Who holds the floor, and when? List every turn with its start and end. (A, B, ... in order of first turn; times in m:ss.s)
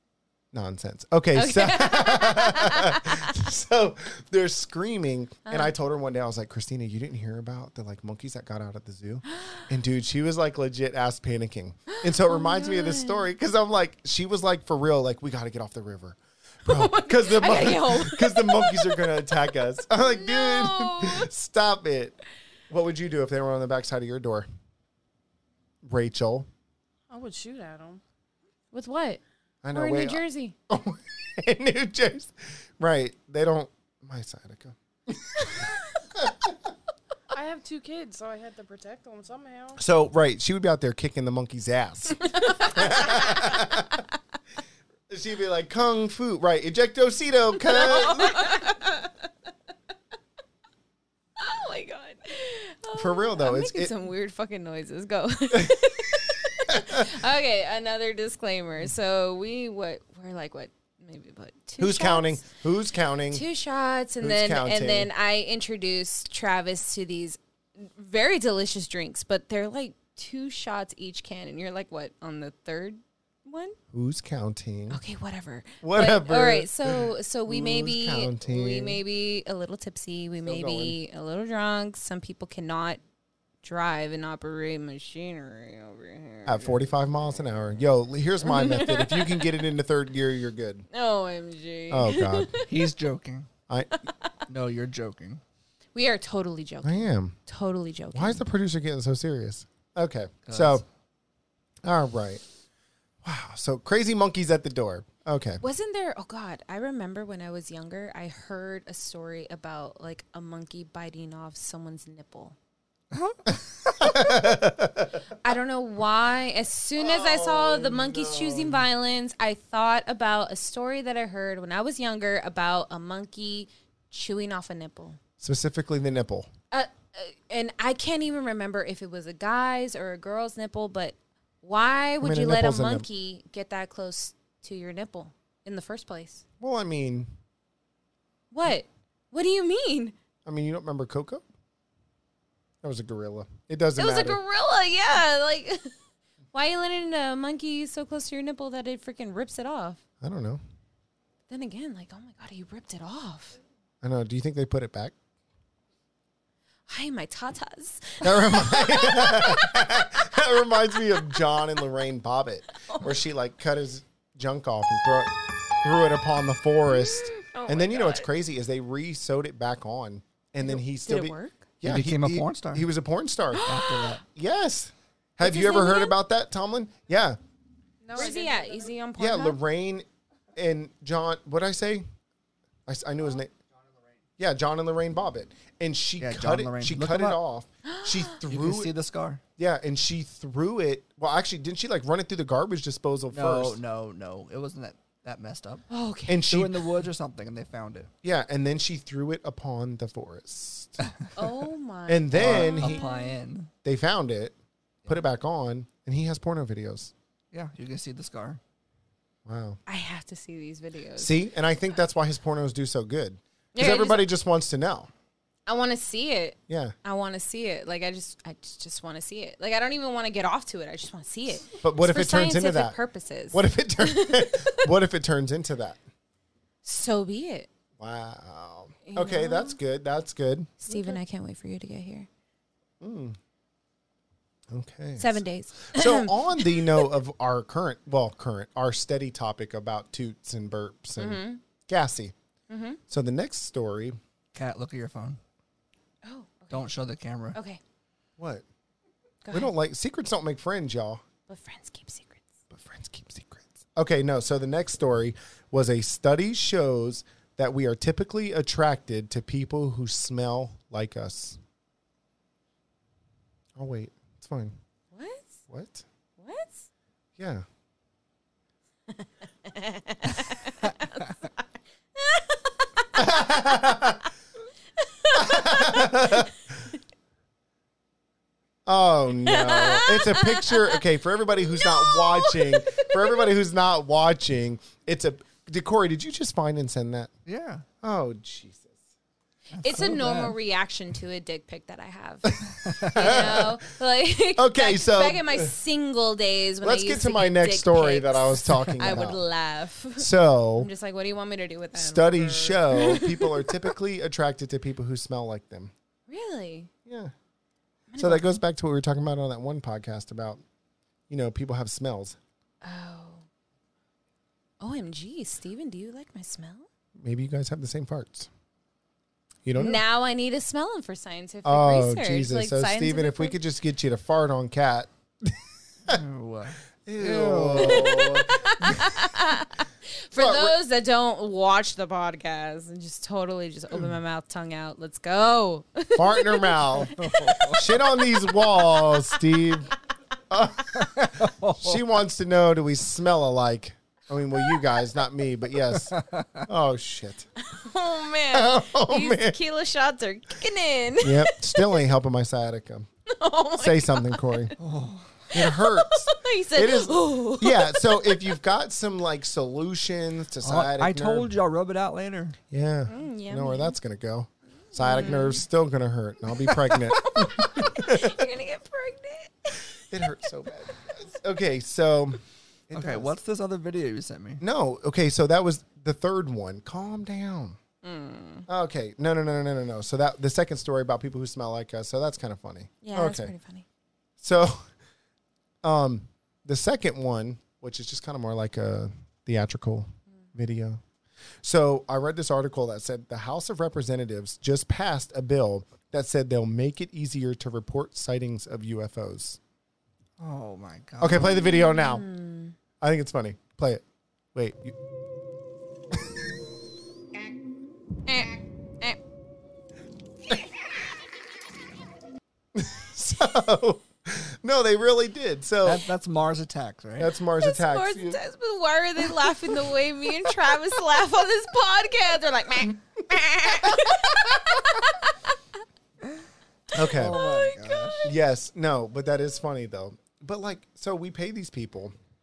0:00.5-0:22.2 A
0:01.3-0:03.3 B
0:05.4-0:05.7 B
0:09.4-0:09.7 B
0:11.9-0:13.3 B
0:16.7-0:21.3 B
0:22.7-0:24.5 A
0:25.8-0:26.5 A
0:27.1-0:28.0 C
0:28.7-0:29.2 B
0:29.6-0:35.6 A
0:29.7-0:30.5 B
0:36.1-0:36.5 A
0:37.3-0:39.8 C
0:39.8-0:44.0 A
0:42.3-0:43.5 B
0:45.1-0:48.6 A
0:47.7-0:49.1 B
0:51.4-1:02.4 B
0:52.9-0:53.9 A
0:56.7-0:57.1 A
1:01.8-1:03.4 A
1:03.3-1:13.8 B
1:04.2-1:05.1 A
1:13.9-1:15.0 A
1:14.9-1:23.0 B
1:15.8-1:19.0 A
1:20.4-1:21.0 A
1:23.6-1:26.8 B
1:26.4-1:30.9 A
1:28.4-1:29.5 B
1:30.9-1:32.7 B
1:31.9-1:32.5 A
1:32.7-1:33.5 D
1:33.7-1:34.0 A
1:34.5-1:35.4 D
1:35.9-1:38.4 B
1:36.8-1:37.4 A
1:38.1-1:40.8 A
1:40.4-1:40.8 D
1:41.8-1:42.4 A
1:43.2-1:45.6 A
1:45.6-1:52.5 B
1:53.1-1:54.0 D
1:54.0-1:55.2 A
1:55.4-2:05.2 B
1:57.0-1:58.8 A
2:05.4-2:06.5 A
2:06.7-2:16.4 B
2:12.2-2:13.0 A
2:16.6-2:17.3 A
2:18.5-2:20.1 B
2:20.4-2:21.4 A
2:22.8-2:24.4 A
2:24.0-2:25.9 B
2:26.5-2:30.0 B
2:30.2-2:30.6 A
2:31.5-2:33.6 B
2:34.0-2:35.1 A
2:36.9-2:39.8 B
2:38.2-2:53.7 A
2:42.9-2:43.1 B
2:46.9-2:48.3 B
2:50.6-2:51.6 B
2:51.8-2:52.9 D
2:53.5-2:54.2 B
2:53.6-2:54.2 D
2:54.3-2:57.4 A
2:55.4-2:56.1 B
2:58.0-2:58.9 C
2:58.1-2:59.6 B
2:59.2-3:02.0 A
3:02.9-3:03.5 A
3:04.4-3:08.9 A
3:06.2-3:07.4 D
3:07.8-3:08.4 B
3:08.5-3:09.4 D
3:09.6-3:13.8 A
3:13.3-3:15.8 D
3:15.9-3:16.5 B
3:16.3-3:16.8 A
3:16.5-3:18.1 D
3:18.2-3:21.0 A
3:21.3-3:23.4 B
3:22.1-3:23.0 A
3:22.3-3:23.7 D
3:23.8-3:24.5 A
3:25.1-3:27.1 A
3:27.5-3:28.6 D
3:29.4-3:29.8 A
3:29.9-3:31.4 B
3:31.2-3:35.1 A
3:33.7-3:34.2 B
3:35.7-3:44.9 B
3:36.7-3:36.9 A
3:41.8-3:43.0 A
3:43.5-3:46.0 A
3:46.8-3:47.7 B
3:48.0-3:50.8 A
3:49.0-3:49.8 B
3:50.8-3:52.3 B
3:53.0-3:53.4 A
3:54.7-4:02.3 A
3:55.2-3:57.1 B
4:01.2-4:01.6 B
4:02.7-4:03.0 B
4:03.1-4:04.2 A
4:04.5-4:05.4 D
4:06.2-4:06.9 B
4:06.7-4:07.6 D
4:07.5-4:07.8 B
4:08.4-4:08.6 A
4:09.4-4:09.7 B
4:09.5-4:11.2 A
4:11.5-4:12.5 B
4:12.7-4:21.6 A
4:23.8-4:24.8 A
4:25.1-4:25.6 B
4:25.7-4:26.0 A
4:26.4-4:26.9 B
4:27.4-4:27.6 A
4:29.1-4:31.4 B
4:32.2-4:33.4 B
4:33.2-4:34.2 A
4:35.0-4:36.5 B
4:35.3-4:36.7 A
4:38.8-4:47.3 A
4:39.5-4:41.0 B
4:41.8-4:43.1 B
4:47.4-4:47.8 D
4:48.0-4:49.0 A
4:49.7-4:50.5 D
4:49.8-4:52.5 B
4:52.5-4:53.8 A
4:52.8-4:53.3 D
4:53.1-5:03.7 B
4:54.6-4:55.7 A
4:56.8-4:59.4 A
5:00.2-5:00.9 A
5:01.9-5:05.9 A
5:06.3-5:06.9 B
5:07.0-5:07.3 A
5:08.1-5:08.6 B
5:08.2-5:10.6 A
5:11.3-5:12.4 A
5:12.8-5:13.4 B
5:14.8-5:16.9 B
5:17.2-5:18.5 A
5:19.6-5:20.0 A
5:19.7-5:23.6 B
5:21.6-5:26.2 A
5:26.1-5:28.3 D
5:27.0-5:29.3 A
5:27.8-5:39.4 B
5:30.3-5:30.8 A
5:36.1-5:37.1 A
5:37.1-5:37.8 D
5:37.7-5:39.9 A
5:40.5-5:47.5 A
5:41.0-5:42.0 D
5:45.9-5:46.6 D
5:47.6-5:52.0 B
5:48.5-5:49.6 A
5:51.2-5:53.1 A
5:53.3-5:54.7 B
5:53.8-5:54.7 A
5:54.8-5:55.4 D
5:55.5-6:01.5 A
5:55.5-5:58.4 B
6:00.6-6:02.6 D
6:02.7-6:08.4 A
6:03.1-6:04.0 B
6:05.0-6:05.6 B
6:07.2-6:09.8 B
6:10.0-6:13.4 A
6:12.9-6:14.6 D
6:14.6-6:17.8 A
6:18.0-6:18.6 B
6:18.7-6:23.5 A
6:23.0-6:23.8 B
6:24.4-6:24.8 A
6:25.8-6:31.0 A
6:31.6-6:39.6 A
6:40.4-6:41.5 D
6:41.2-6:42.2 A
6:41.5-6:42.7 B
6:43.0-6:44.0 A
6:44.5-6:45.0 A
6:48.2-6:49.2 B
6:52.7-6:56.0 A
6:55.8-6:57.3 D
6:57.2-6:58.4 A
6:57.6-7:05.5 B
7:03.7-7:04.0 A
7:06.9-7:07.4 A
7:07.1-7:08.3 D
7:07.3-7:08.1 B
7:08.2-7:12.1 A